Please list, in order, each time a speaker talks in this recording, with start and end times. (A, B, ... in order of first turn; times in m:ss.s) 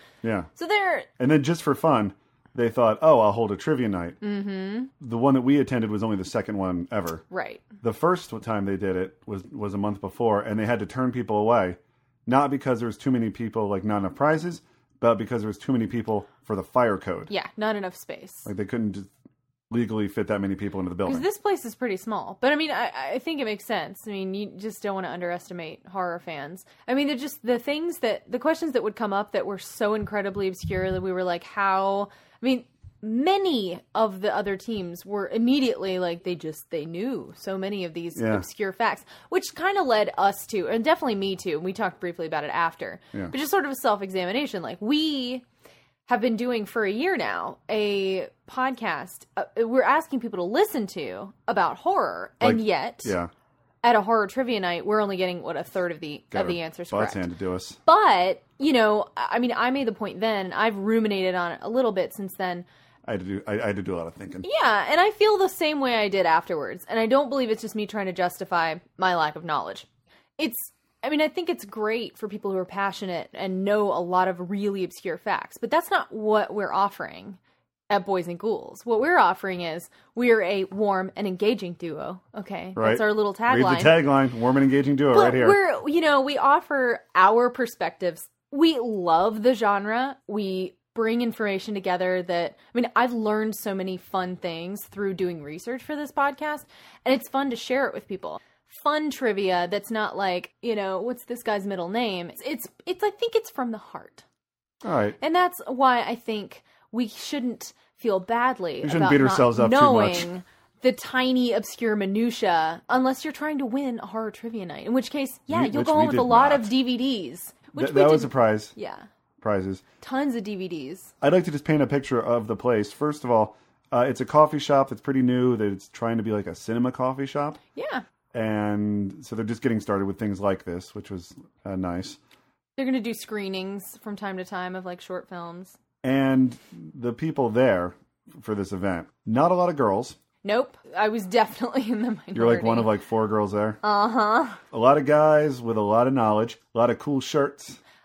0:00.2-0:00.5 A
0:00.6-0:01.1 B
0:01.2-0:04.2 A
0:04.2-0:04.9 B
0:05.0-0:07.2 A
0:07.3-0:07.7 B
0:07.8-0:17.3 A
0:17.3-0:18.5 B
0:18.4-0:19.1 A
0:19.7-0:21.2 A
0:21.0-0:45.4 B
0:38.2-0:38.4 A
0:46.1-0:53.2 B
0:52.4-0:53.3 A
0:53.8-0:57.2 B
0:56.3-0:57.8 A
0:57.8-1:02.6 B
1:03.0-1:04.4 A
1:04.4-1:09.8 B
1:10.4-1:17.4 B
1:17.9-1:24.0 B
1:22.8-1:25.6 A
1:25.1-1:44.2 B
1:44.8-1:45.2 A
1:45.2-1:59.1 B
1:48.8-1:50.3 A
1:55.5-1:56.7 A
1:57.8-1:58.7 A
1:59.4-1:59.8 A
2:00.0-2:01.1 B
2:01.2-2:07.6 A
2:07.7-2:08.0 B
2:08.3-2:12.2 A
2:12.8-2:15.8 B
2:16.0-2:20.2 A
2:20.4-2:22.9 B
2:22.3-2:23.8 A
2:23.8-2:24.6 B
2:24.7-2:27.8 A